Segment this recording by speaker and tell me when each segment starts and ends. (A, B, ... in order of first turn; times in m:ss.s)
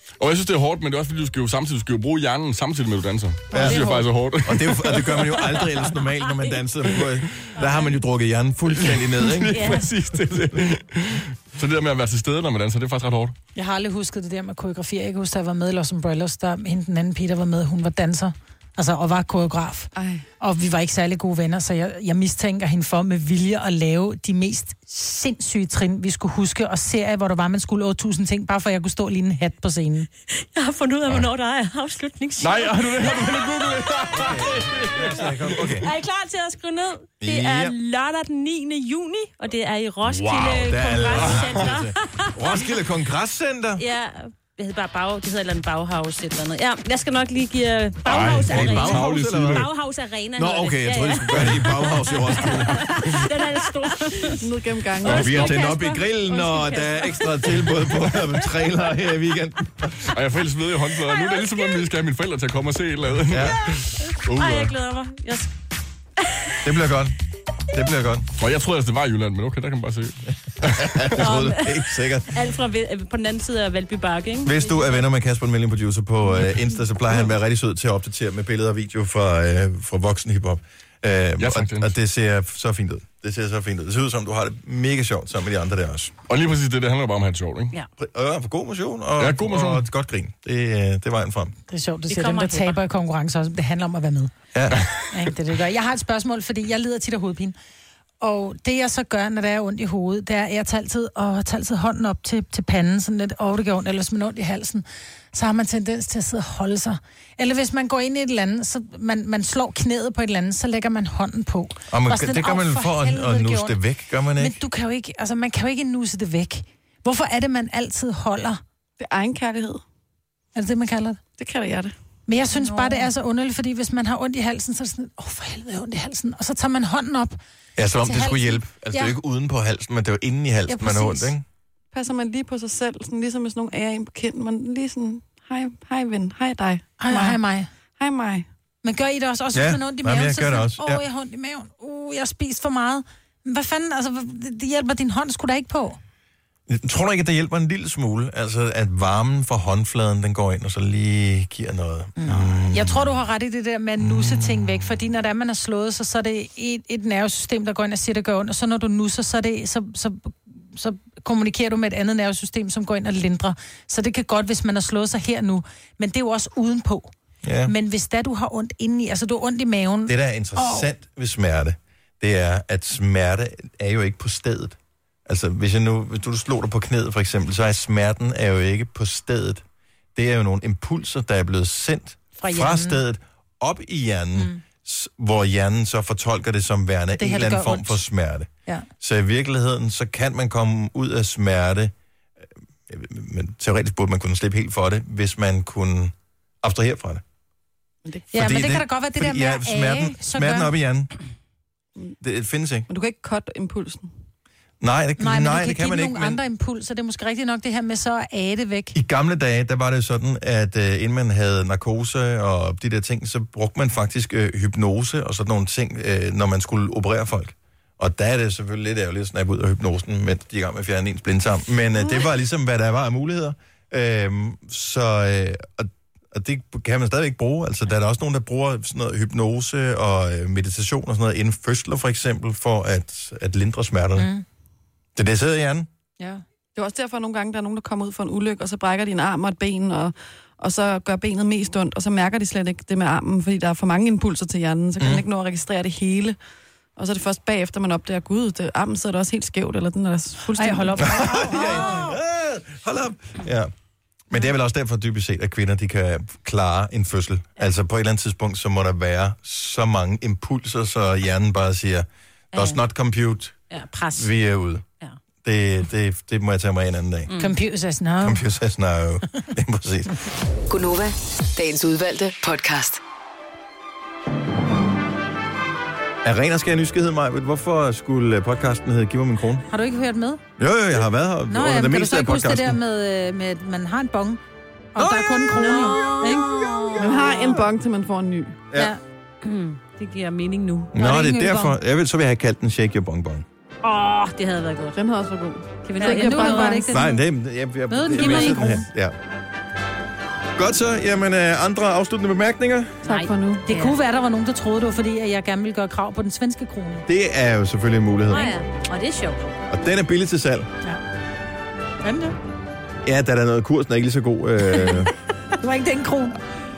0:00.2-0:05.8 A
0:03.5-0:04.1 B
0:03.5-0:03.9 C
0:04.4-0:09.9 C
0:05.6-0:06.5 D
0:07.6-0:08.0 D
0:08.8-0:13.3 A
0:09.5-0:09.9 D
0:13.6-0:30.1 B
0:20.0-0:20.2 E
0:30.3-0:33.3 D
0:32.4-0:35.6 A
0:34.1-0:35.9 C
0:35.0-0:42.8 D
0:37.2-0:37.7 C
0:40.0-0:43.8 C
0:41.1-0:41.7 A
0:43.8-0:54.5 D
0:48.0-0:49.7 A
0:48.1-0:49.7 C
0:50.4-0:53.3 C
0:51.3-0:51.7 A
0:54.3-0:55.8 E
0:55.0-0:57.6 D
0:55.0-1:00.1 C
1:00.1-1:04.0 A
1:01.1-1:01.8 D
1:03.3-1:03.7 C
1:03.4-1:05.5 D
1:04.2-1:04.7 C
1:06.2-1:06.7 D
1:06.6-1:07.2 C
1:07.7-1:08.3 C
1:08.4-1:10.9 A
1:10.6-1:12.4 C
1:11.2-1:15.0 D
1:14.4-1:26.1 C
1:21.4-1:21.9 A
1:26.3-1:27.7 A
1:28.0-1:31.6 C
1:29.2-1:29.9 A
1:31.7-1:34.3 B
1:32.1-1:32.8 D
1:34.5-1:34.9 C
1:35.1-1:37.6 B
1:38.2-1:53.8 B
1:51.9-1:54.6 C
1:54.4-1:58.6 B
1:59.0-1:59.8 E
2:00.5-2:01.2 B
2:01.4-2:01.9 E
2:02.3-2:07.4 B
2:02.5-2:03.1 D
2:07.8-2:11.4 C
2:07.9-2:09.1 B
2:10.7-2:11.3 B
2:11.9-2:17.4 E
2:17.0-2:17.7 B
2:18.0-2:18.4 E
2:18.8-2:26.0 B
2:19.5-2:21.0 C
2:26.7-2:33.2 C
2:32.2-2:47.1 B
2:34.0-2:34.8 C
2:47.4-2:47.7 C
2:47.6-2:50.9 B
2:50.1-2:59.6 C
3:00.1-3:11.9 C
3:02.4-3:03.0 B
3:07.1-3:08.0 B
3:12.9-3:17.2 C
3:18.3-3:20.7 B
3:18.3-3:21.1 C
3:22.2-3:22.9 C
3:22.9-3:24.1 E
3:24.8-3:26.4 C
3:25.2-3:28.9 B
3:28.9-3:54.3 C
3:54.2-3:54.4 B
3:55.1-3:55.9 C
3:56.8-4:06.4 E
4:05.0-4:05.2 C
4:07.0-4:11.1 E
4:10.5-4:12.1 B
4:11.0-4:13.7 C
4:14.3-4:23.6 C
4:22.5-4:22.8 D
4:23.7-4:24.3 D
4:24.1-4:24.8 C
4:25.4-4:27.3 C
4:27.3-4:27.6 D
4:27.4-4:28.4 B
4:28.2-4:30.2 C
4:30.7-4:33.0 F
4:36.2-4:39.6 C
4:39.7-4:40.4 B
4:40.6-4:42.8 C
4:41.5-4:44.4 B
4:44.9-4:46.5 B
4:45.0-4:45.3 C
4:45.5-4:47.4 D
4:47.0-4:48.6 E
4:48.7-4:48.9 C
4:48.7-4:49.0 B
4:49.4-4:50.9 D
4:50.9-4:53.4 C
4:51.0-4:51.8 B
4:53.8-4:55.0 D
4:55.0-4:56.9 E
4:55.8-4:57.0 D
4:56.0-4:57.2 B
4:56.9-4:59.2 C
4:57.9-4:58.8 B
4:58.1-4:58.8 D
5:00.6-5:03.0 C
5:03.0-5:04.0 D
5:03.0-5:03.6 E
5:03.6-5:07.0 B
5:07.1-5:08.5 C
5:08.3-5:09.4 D
5:09.7-5:10.7 C
5:12.0-5:12.3 B
5:13.0-5:15.1 C
5:15.6-5:16.4 B